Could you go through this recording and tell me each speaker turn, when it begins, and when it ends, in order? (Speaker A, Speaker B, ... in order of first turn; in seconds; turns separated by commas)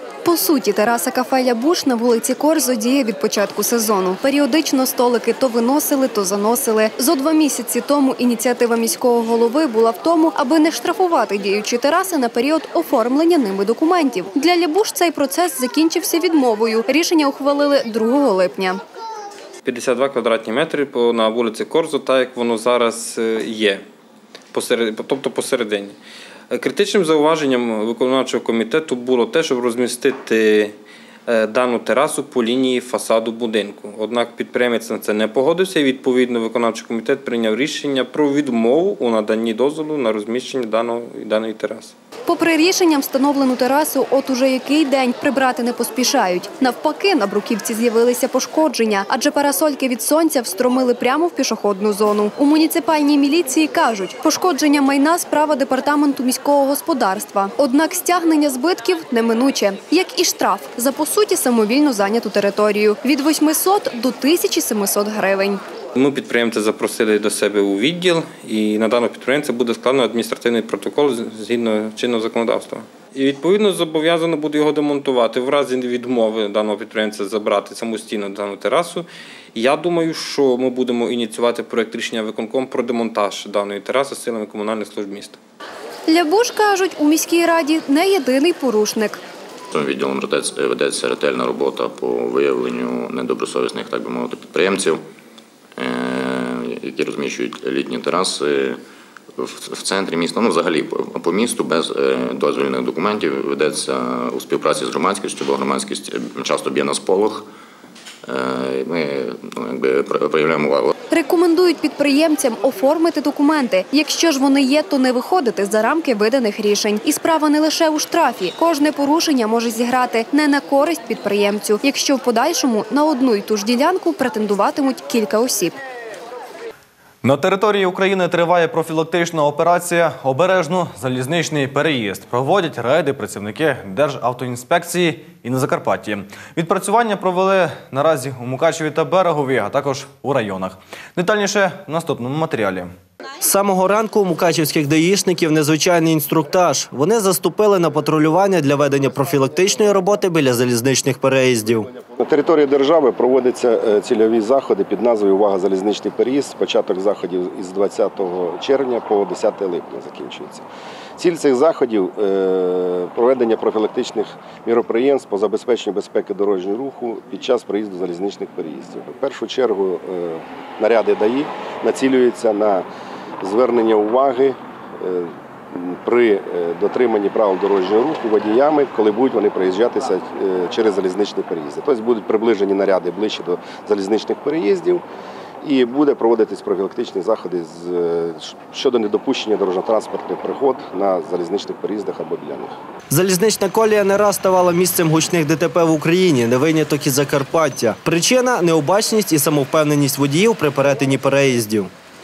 Speaker A: 0.2-18.8, Speaker B: 19.6-23.8, Speaker B: 24.5-26.0, Speaker B: 26.5-30.8, Speaker B: 31.3-41.9, Speaker A: 42.3-65.6, Speaker B: 66.0-85.4, Speaker A: 86.1-89.2, Speaker C: 89.7-95.0, Speaker C: 95.8-98.8, Speaker C: 99.4-107.4, Speaker C: 108.3-110.9, Speaker A: 111.1-125.8, Speaker D: 127.2-142.9, Speaker E: 143.4-151.9, Speaker F: 152.2-160.6, Speaker F: 161.2-172.8, Speaker F: 173.4-185.0, Speaker F: 185.6-192.7, Speaker E: 193.1-201.9